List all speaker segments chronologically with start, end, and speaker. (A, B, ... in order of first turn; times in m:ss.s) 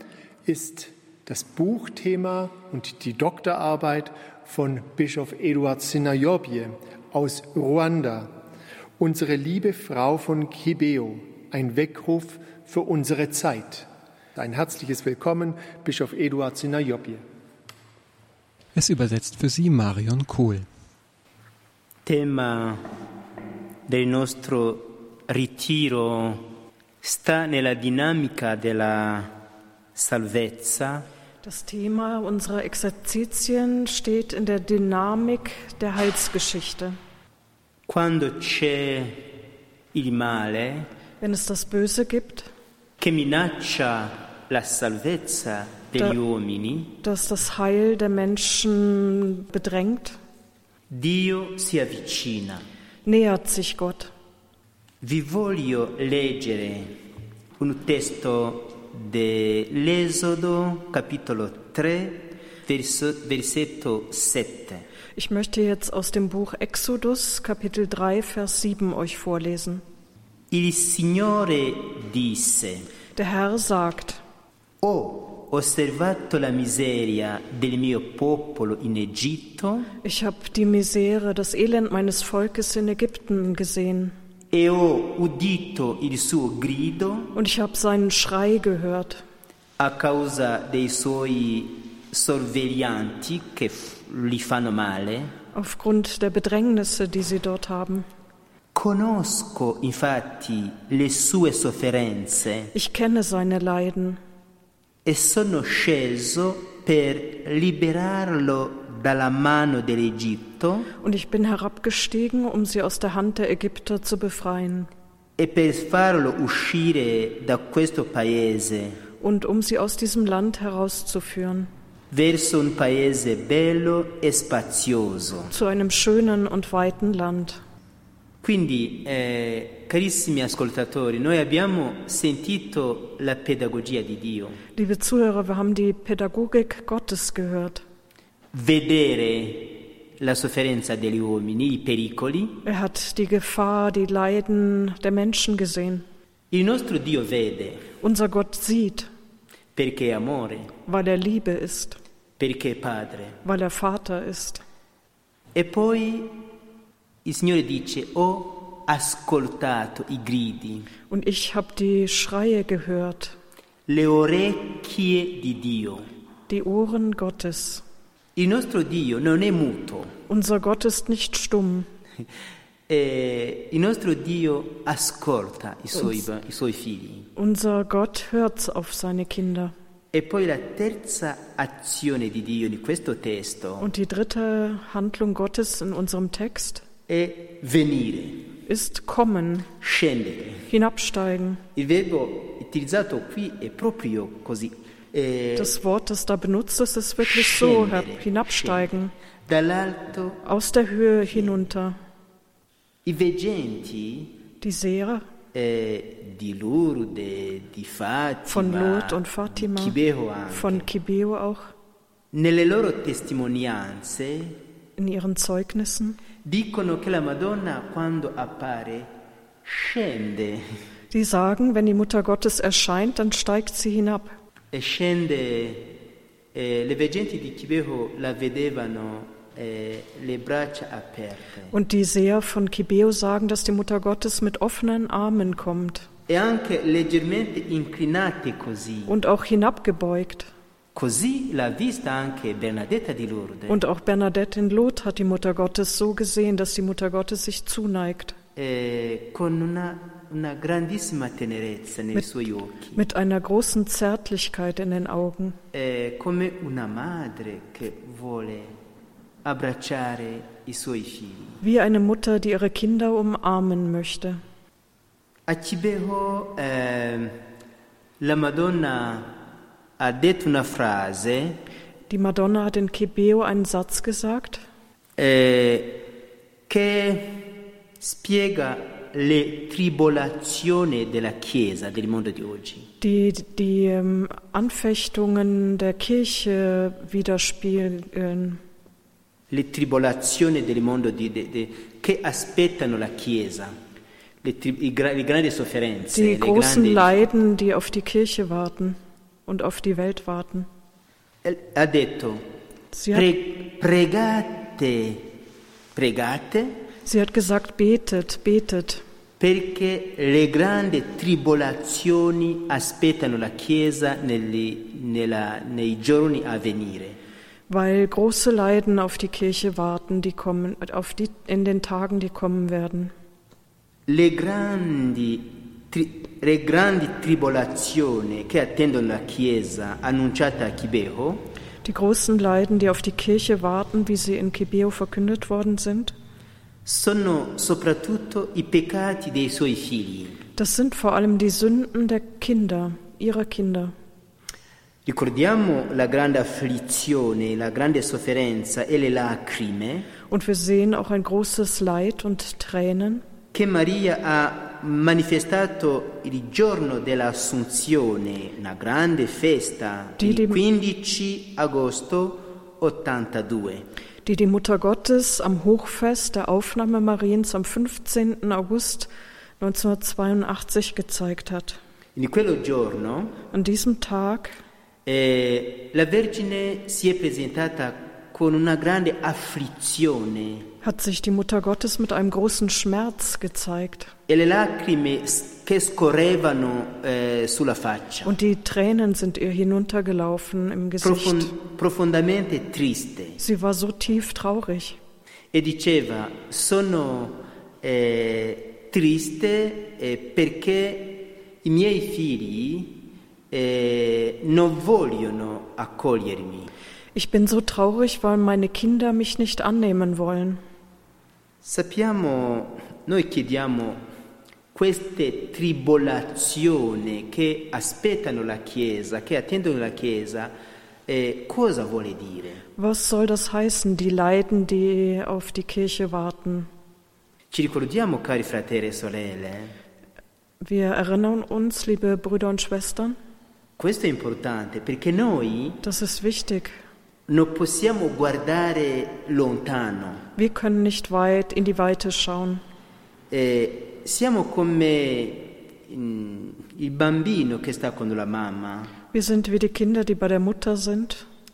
0:00.4-0:08.3 A
0:09.0-0:17.2 A
0:18.7-0:20.7 B
0:22.0-0:22.8 C
0:23.9-0:26.4 C
0:27.0-0:29.3 C
0:30.0-0:31.0 C
0:31.4-0:37.0 D
0:37.9-0:39.2 C
0:39.9-0:40.9 C
0:41.2-0:42.5 D
0:43.0-0:47.0 C
0:47.0-0:50.2 D
0:50.9-0:52.6 C
0:53.0-0:54.1 D
0:55.0-0:56.9 C
0:57.6-1:04.8 C
1:05.2-1:09.8 D
1:10.5-1:12.9 C
1:13.2-1:14.2 D
1:14.8-1:19.9 C
1:20.0-1:24.1 D
1:24.5-1:27.3 C
1:27.3-1:29.2 D
1:29.8-1:35.3 C
1:35.5-1:38.1 D
1:38.7-1:42.7 C
1:42.7-1:44.2 D
1:45.0-1:50.9 C
1:51.0-1:54.9 D
1:55.4-1:59.0 C
1:59.2-2:01.7 D
2:02.1-2:05.5 C
2:05.5-2:07.6 D
2:08.4-2:14.6 C
2:14.8-2:17.8 D
2:18.5-2:22.6 C
2:22.6-2:26.1 D
2:26.5-2:27.8 C
2:28.0-2:29.1 D
2:29.8-2:30.7 C
2:30.8-2:32.0 D
2:32.4-2:33.4 C
2:33.4-2:34.6 D
2:35.5-2:36.4 C
2:37.2-2:40.9 C
2:41.1-2:43.4 D
2:43.9-2:46.1 C
2:46.5-2:47.8 D
2:48.4-2:50.1 C
2:50.3-2:51.9 D
2:52.9-2:57.3 C
2:57.4-2:59.7 D
3:00.1-3:03.9 C
3:03.8-3:06.8 D
3:07.1-3:08.5 C
3:08.7-3:09.7 D
3:09.8-3:10.7 C
3:10.7-3:11.6 D
3:11.8-3:15.7 C
3:15.5-3:19.1 D
3:17.2-3:18.9 C
3:19.5-3:20.4 C
3:20.4-3:22.0 D
3:23.1-3:24.3 C
3:24.6-3:25.2 D
3:25.5-3:30.8 C
3:28.5-3:30.0 D
3:30.5-3:31.7 D
3:32.3-3:34.6 C
3:35.0-3:36.2 D
3:36.4-3:39.1 C
3:39.6-3:40.6 C
3:41.1-3:44.4 D
3:44.7-3:45.9 C
3:46.5-3:51.7 C
3:51.7-3:56.1 D
3:56.3-3:59.2 C
3:59.1-4:00.5 D
4:00.9-4:03.8 C
4:03.7-4:08.4 D
4:08.6-4:13.0 C
4:13.0-4:15.6 D
4:15.7-4:18.7 C
4:19.4-4:21.6 C
4:21.6-4:24.4 D
4:25.5-4:27.4 C
4:28.2-4:29.3 C
4:30.0-4:31.6 C
4:32.1-4:34.6 D
4:35.2-4:36.0 C
4:36.7-4:37.5 C
4:38.0-4:42.9 C
4:43.0-4:48.6 D
4:49.5-4:53.7 C
4:54.4-4:57.1 C
4:56.1-5:00.7 D
5:01.4-5:02.4 C
5:02.9-5:03.3 D
5:03.1-5:05.3 C
5:05.9-5:06.7 C
5:07.0-5:09.0 D
5:09.4-5:17.2 C
5:17.7-5:23.1 D
5:24.1-5:31.4 C
5:31.8-5:36.1 D
5:36.8-5:40.4 C
5:40.6-5:43.9 D
5:45.0-5:50.1 C
5:50.3-5:53.2 D
5:53.5-6:03.8 C
6:00.2-6:00.6 D
6:04.2-6:11.8 D
6:12.2-6:13.4 C
6:13.5-6:14.6 D
6:15.0-6:20.7 C
6:20.8-6:24.1 D
6:24.3-6:28.3 C
6:28.2-6:31.5 D
6:31.0-6:33.4 C
6:33.4-6:35.0 D
6:35.5-6:46.7 C
6:47.1-6:50.6 D
6:51.6-6:54.0 C
6:54.7-7:00.5 C
7:01.1-7:02.6 C
7:02.8-7:06.7 D
7:07.5-7:09.7 C
7:10.6-7:13.2 D
7:13.8-7:15.8 C
7:15.8-7:16.8 D
7:17.3-7:20.2 C
7:20.4-7:22.6 D
7:23.3-7:28.9 C
7:29.1-7:31.2 D